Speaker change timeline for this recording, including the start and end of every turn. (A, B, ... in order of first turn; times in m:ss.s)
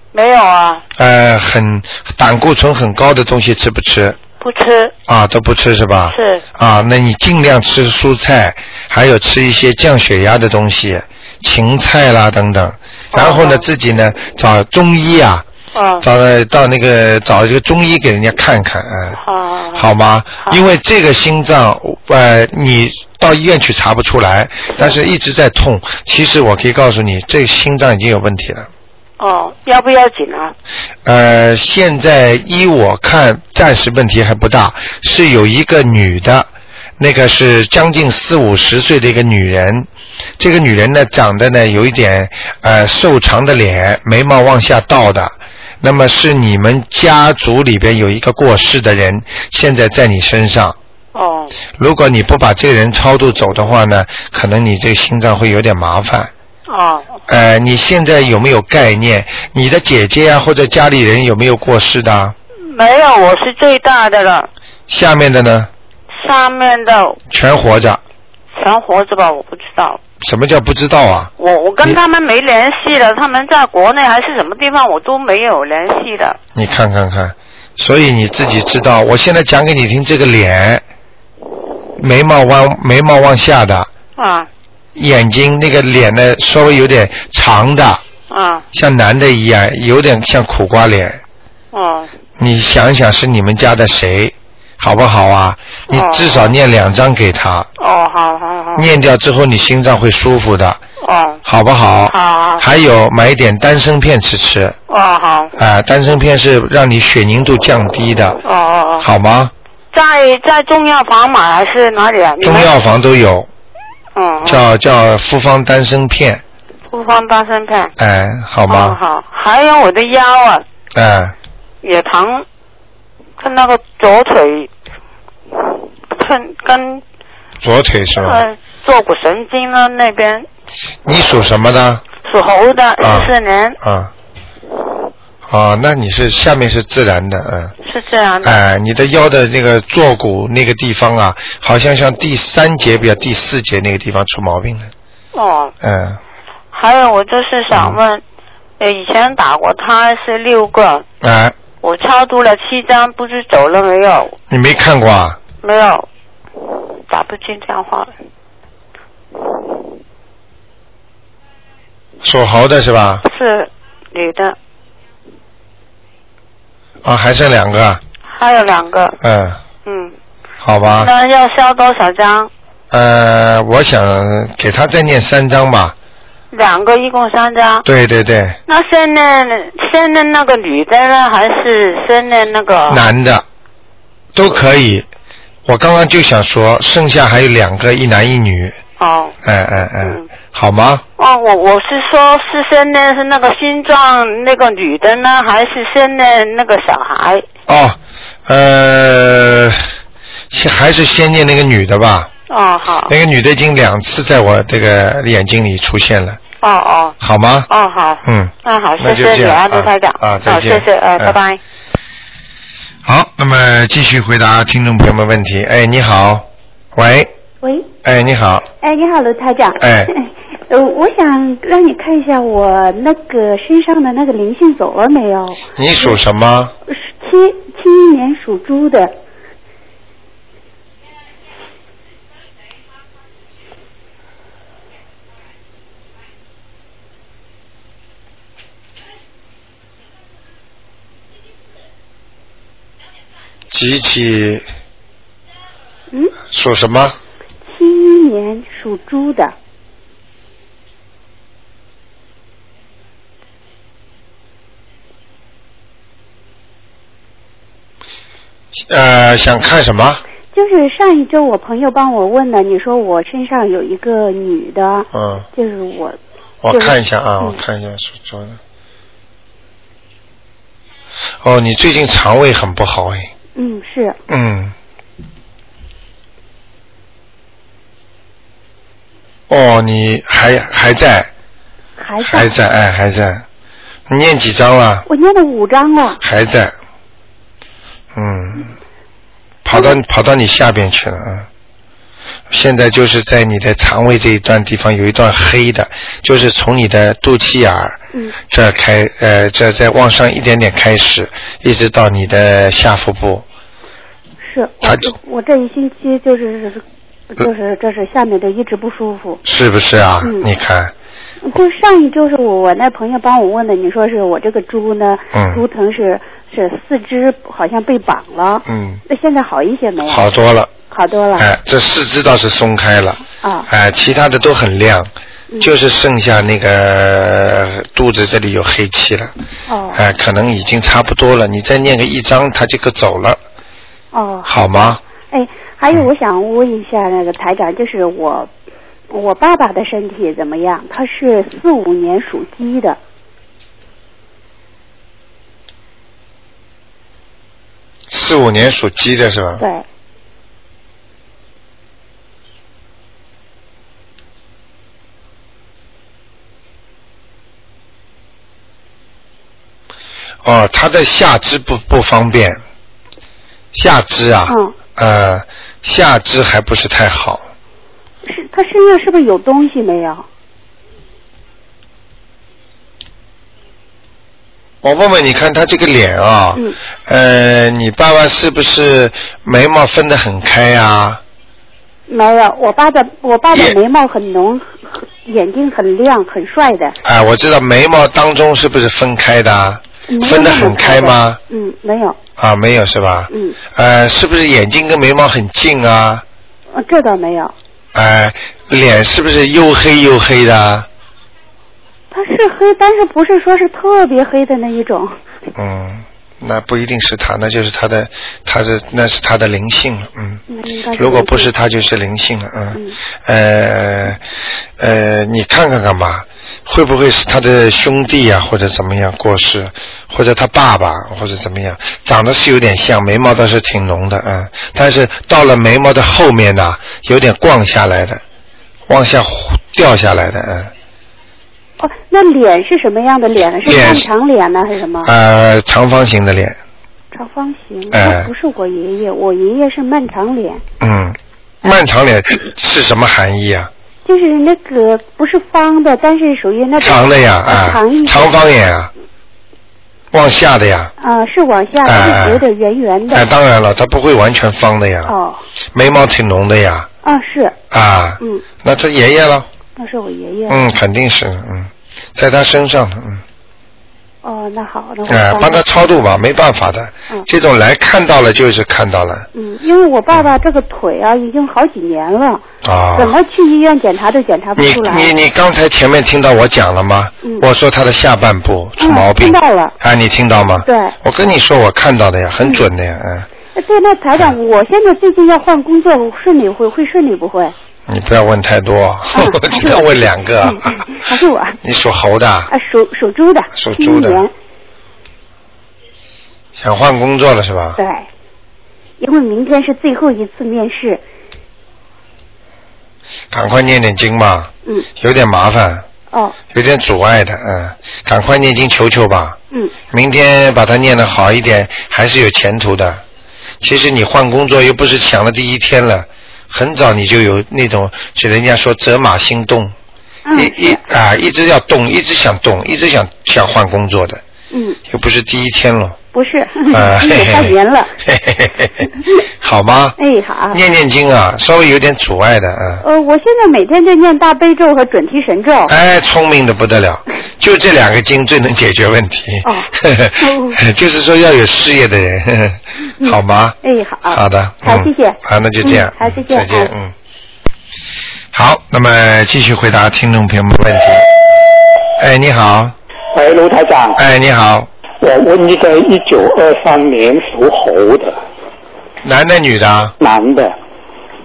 0:00.1-0:00.8 A
0:01.0-0:04.2 B
0:04.4-0:04.9 A
0:05.1-0:15.4 B
0:06.1-0:06.4 A
0:13.1-0:13.6 A
0:15.7-0:16.1 A
0:16.0-0:19.2 B
0:19.2-0:19.9 A
0:19.8-0:28.7 B
0:29.2-0:30.5 A
0:31.0-0:36.5 B
0:37.0-0:39.9 B
0:40.4-0:50.8 B
0:51.1-0:51.5 A
0:51.8-0:56.3 B
0:56.7-0:57.2 A
0:57.3-1:02.4 B
1:02.7-1:04.5 A
1:04.9-1:05.7 B
1:06.1-1:07.2 A
1:07.3-1:08.0 B
1:08.5-1:10.0 A
1:10.2-1:11.3 B
1:11.4-1:16.4 A
1:16.6-1:20.8 B
1:22.0-1:23.9 B
1:24.2-1:24.5 A
1:25.0-1:28.0 B
1:28.3-1:28.6 A
1:28.7-1:31.2 B
1:31.7-1:32.1 A
1:32.4-1:37.7 B
1:35.9-1:36.5 A
1:37.8-1:38.9 A
1:38.8-1:40.8 B
1:41.0-1:41.4 A
1:41.4-1:44.8 B
1:42.1-1:42.7 A
1:44.9-1:45.5 A
1:45.6-1:48.4 B
1:48.4-1:49.1 A
1:49.0-1:49.5 B
1:49.9-1:52.7 A
1:52.4-1:53.5 B
1:54.2-1:54.6 A
1:54.4-1:56.4 B
1:56.9-1:57.9 A
1:58.0-1:59.0 B
1:58.7-2:00.6 A
2:00.9-2:01.4 B
2:01.8-2:02.4 A
2:03.4-2:04.7 A
2:05.5-2:07.0 A
2:07.6-2:08.4 B
2:08.2-2:10.5 A
2:11.1-2:12.0 B
2:12.3-2:13.8 A
2:13.0-2:14.1 B
2:15.5-2:17.8 B
2:17.8-2:18.6 A
2:18.4-2:24.9 B
2:25.3-2:25.7 A
2:25.8-2:26.2 B
2:26.7-2:28.2 A
2:27.7-2:28.0 B
2:28.8-2:31.0 A
2:31.2-2:31.6 B
2:31.8-2:34.4 A
2:34.5-2:35.4 B
2:35.6-2:36.1 A
2:36.6-2:38.1 A
2:42.2-2:43.2 B
2:43.2-2:44.6 A
2:47.0-2:48.0 B
2:48.3-2:49.2 A
2:49.2-2:49.6 B
2:49.8-2:50.1 A
2:50.6-2:51.1 B
2:50.9-2:52.5 A
2:52.9-2:56.0 B
2:56.5-2:57.9 A
2:57.8-2:58.6 B
2:58.7-3:03.0 A
3:02.9-3:03.4 B
3:04.4-3:05.1 B
3:05.7-3:08.8 B
3:09.0-3:09.4 A
3:09.4-3:11.0 B
3:11.2-3:17.5 A
3:17.7-3:19.9 B
3:20.5-3:22.3 B
3:22.5-3:23.1 A
3:23.1-3:26.4 B
3:26.6-3:27.2 A
3:27.2-3:27.7 B
3:27.7-3:31.6 A
3:28.2-3:31.4 B
3:33.1-3:37.3 B
3:37.6-3:37.9 C
3:38.0-3:38.7 B
3:38.8-3:46.2 C
3:39.8-3:40.1 B
3:45.8-3:46.7 B
3:46.9-3:49.2 C
4:03.7-4:04.7 B
4:06.5-4:07.2 B
4:07.7-4:09.6 C
4:18.8-4:20.2 B
4:20.5-4:26.2 C
4:25.1-4:25.4 B
4:26.6-4:28.6 B
4:26.7-4:27.6 C
4:31.4-4:33.3 B
4:33.6-4:34.2 C
4:34.3-4:34.8 B
4:39.5-4:41.3 B
4:42.0-4:42.6 C
4:42.2-4:43.4 B
4:44.1-4:45.1 B
4:45.1-4:46.2 C
4:46.2-4:46.7 B
4:48.1-4:48.7 B
4:49.6-4:51.5 B
4:52.5-5:03.4 B
5:04.4-5:06.8 C
5:04.8-5:05.1 B
5:07.3-5:09.4 C
5:09.4-5:10.9 B
5:10.2-5:10.5 C
5:11.4-5:20.3 C
5:15.3-5:15.6 B
5:18.7-5:19.0 B
5:20.0-5:20.7 B
5:20.9-5:21.5 C
5:21.4-5:29.3 B
5:23.4-5:23.7 C
5:29.7-5:30.1 C
5:29.9-5:33.4 B
5:34.1-5:38.5 C
5:34.5-5:35.0 B
5:39.1-5:43.0 C
5:48.1-5:49.6 B
5:49.6-5:49.8 C
6:00.4-6:02.6 B
6:03.7-6:07.5 B
6:04.5-6:04.7 C
6:08.3-6:10.2 C
6:14.8-6:21.2 B
6:22.1-6:27.0 C
6:27.0-6:31.4 B
6:30.1-6:32.2 C
6:32.4-6:36.2 B
6:33.3-6:33.6 C
6:36.8-6:37.5 C
6:37.9-6:40.9 B
6:42.1-6:45.2 C
6:45.6-6:50.4 B
6:50.5-6:51.5 C
6:51.0-6:54.2 B
6:54.8-7:08.2 B
7:08.9-7:10.7 B
7:11.8-7:15.1 C
7:13.6-7:14.1 B
7:15.0-7:16.6 B
7:17.1-7:20.6 C
7:17.9-7:18.3 B
7:20.8-7:23.7 B
7:24.1-7:28.4 C
7:26.8-7:28.9 B
7:30.1-7:30.9 B
7:31.0-7:33.3 C
7:31.8-7:32.4 B
7:33.1-7:35.1 B
7:35.1-7:35.4 C
7:35.7-7:36.9 B
7:37.0-7:37.6 C
7:37.7-7:39.5 B
7:39.8-7:40.8 C
7:40.5-7:43.2 B
7:44.2-7:45.6 C
7:45.1-7:49.3 B
7:49.4-7:52.4 C
7:52.6-7:53.2 B
7:53.0-7:55.1 C
7:54.6-8:03.3 B
7:58.8-7:59.8 C
8:00.6-8:01.0 C
8:03.6-8:07.5 C
8:07.9-8:10.8 B
8:09.1-8:09.9 C
8:10.4-8:11.6 C
8:11.6-8:12.5 B
8:12.5-8:14.3 C
8:13.5-8:14.3 B
8:16.6-8:17.8 B
8:17.8-8:18.1 C
8:19.0-8:21.0 C
8:23.3-8:25.9 B
8:26.5-8:29.4 B
8:29.9-8:33.0 B
8:33.6-8:39.8 B
8:40.3-8:40.8 C
8:40.3-8:44.2 B
8:44.5-8:44.8 C
8:44.9-8:46.0 B
8:46.1-8:47.9 C
8:46.7-8:48.9 B
8:49.4-8:50.0 B
8:50.0-8:50.6 C
8:50.5-8:52.8 B
8:52.8-8:55.7 C
8:55.7-9:03.6 B
8:59.4-9:00.6 C
9:03.0-9:06.7 C
9:04.1-9:07.0 B
9:08.3-9:11.1 B
9:12.0-9:12.8 B
9:13.1-9:14.0 D
9:14.0-9:14.7 B
9:15.0-9:18.2 D
9:19.0-9:19.9 B
9:20.0-9:20.5 D